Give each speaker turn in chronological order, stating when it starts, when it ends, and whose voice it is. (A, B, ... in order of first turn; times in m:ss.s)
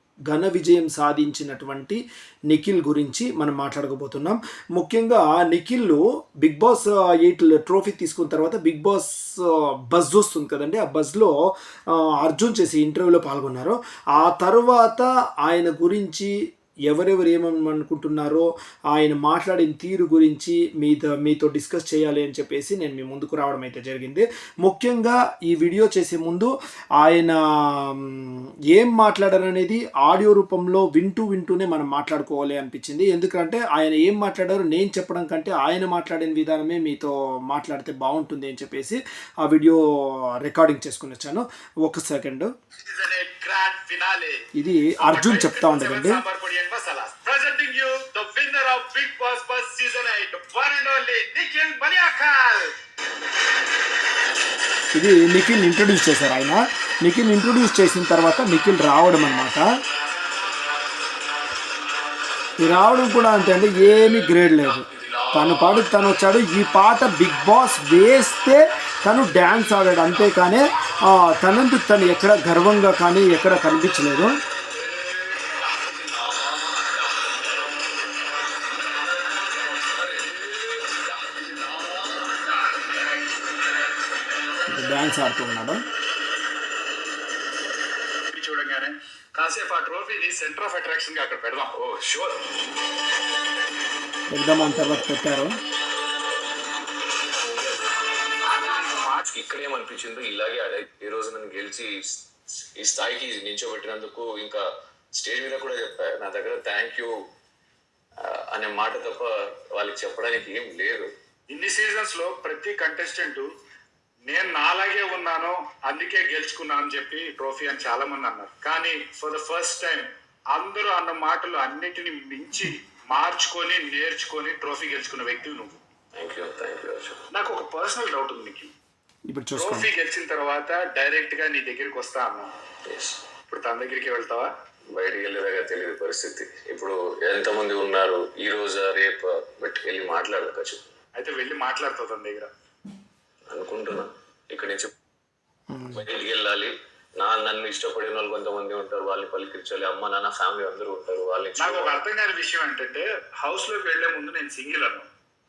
0:00.3-0:11.3 A
0:11.9-0:16.3 A
0:16.9-0:42.5 A
0:42.8-0:44.4 B
0:44.5-0:46.2 A
0:45.0-0:52.7 B
0:54.9-0:59.7 A
1:02.6-1:14.4 A
1:05.0-1:05.4 C
1:21.3-1:21.8 B
1:22.6-1:23.2 B
1:24.7-1:25.8 A
1:28.3-1:31.7 B
1:31.7-1:32.5 C
1:34.3-1:35.5 A
1:38.6-1:39.2 B
1:39.2-1:44.6 C
1:45.1-1:47.1 C
1:48.2-1:51.1 C
1:51.5-1:53.5 B
1:54.3-2:05.8 B
2:06.2-2:07.2 C
2:07.3-2:08.7 B
2:09.3-2:09.9 A
2:09.6-2:12.5 B
2:12.9-2:13.2 C
2:13.5-2:14.5 B
2:14.9-2:20.9 C
2:21.2-2:22.5 B
2:23.5-2:24.9 C
2:25.7-2:26.0 A
2:25.9-2:32.0 C
2:31.6-2:35.0 B